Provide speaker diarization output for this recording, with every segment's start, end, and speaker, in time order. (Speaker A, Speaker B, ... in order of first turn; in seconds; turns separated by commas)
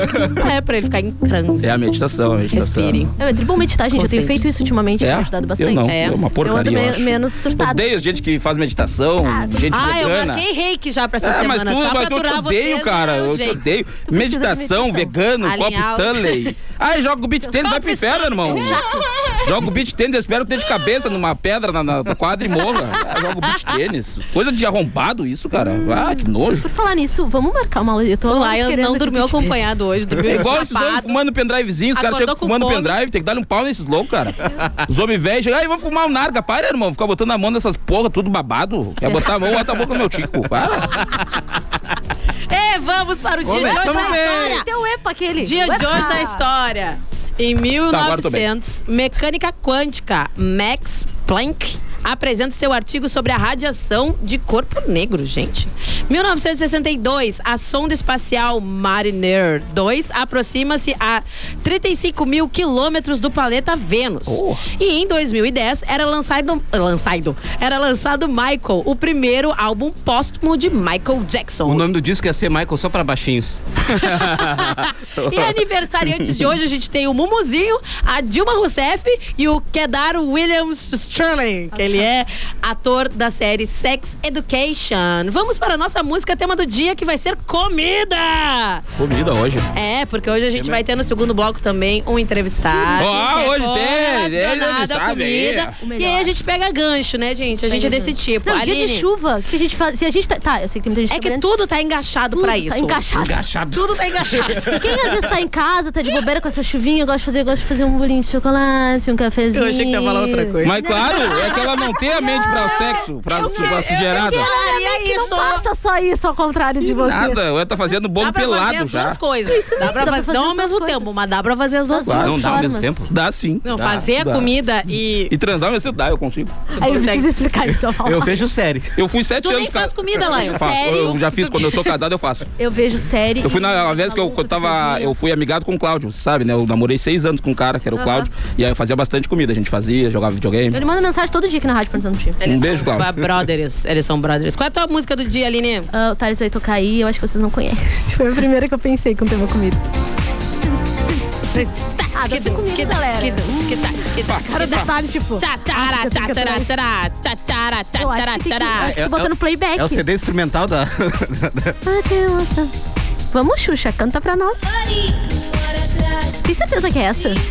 Speaker A: 0.3-1.7, Speaker B: 1.6-3.0, Speaker A: 2.5-3.1, Speaker C: 3.2-7.9, Speaker A: 3.9-4.5, Speaker B: 5.0-10.4, Speaker A: 5.8-6.2, Speaker C: 9.3-10.0, Speaker A: 9.7-13.6, Speaker B: 11.2-18.8, Speaker C: 14.1-15.2, Speaker A: 15.4-16.5, Speaker C: 17.5-19.1, Speaker A: 17.7-18.9, Speaker B: 19.4-26.7, Speaker C: 25.6-29.6, Speaker A: 28.3-31.2, Speaker B: 30.3-34.4, Speaker A: 31.9-33.0, Speaker B: 34.9-41.0, Speaker C: 39.0-39.3, Speaker A: 42.5-44.7, Speaker D: 43.5-44.7, Speaker C: 43.5-46.4, Speaker A: 45.4-71.9, Speaker B: 47.9-48.5, Speaker B: 64.3-64.6, Speaker D: 71.7-73.6, Speaker A: 74.0-88.8, Speaker C: 81.8-82.1, Speaker B: 89.0-89.7, Speaker A: 89.7-99.1, Speaker C: 92.7-93.3, Speaker B: 93.0-95.8, Speaker C: 95.8-96.3, Speaker C: 97.7-101.5, Speaker A: 101.1-103.0, Speaker C: 102.3-103.5, Speaker D: 103.1-104.7, Speaker A: 103.7-104.8, Speaker C: 104.7-117.4, Speaker A: 109.5-111.8, Speaker B: 110.6-114.5, Speaker A: 112.5-115.6, Speaker B: 116.9-119.2, Speaker A: 118.2-122.6, Speaker C: 119.5-121.2, Speaker C: 121.9-123.0, Speaker B: 122.0-124.5, Speaker D: 122.2-123.1, Speaker A: 123.7-125.3, Speaker D: 123.8-124.0, Speaker B: 125.3-126.5, Speaker A: 126.8-127.3, Speaker C: 126.8-128.4, Speaker D: 128.0-128.9, Speaker B: 129.0-132.5, Speaker A: 129.4-131.9, Speaker C: 132.6-135.2, Speaker B: 133.4-140.8, Speaker C: 138.0-138.3, Speaker C: 140.7-142.4, Speaker A: 142.4-145.9, Speaker B: 142.4-143.1, Speaker C: 145.9-149.8, Speaker A: 151.6-154.9, Speaker C: 152.2-156.7, Speaker B: 154.3-154.8, Speaker A: 155.4-158.9, Speaker C: 158.0-160.0, Speaker D: 158.8-161.8, Speaker C: 161.8-162.7, Speaker C: 163.3-164.7, Speaker C: 166.4-167.4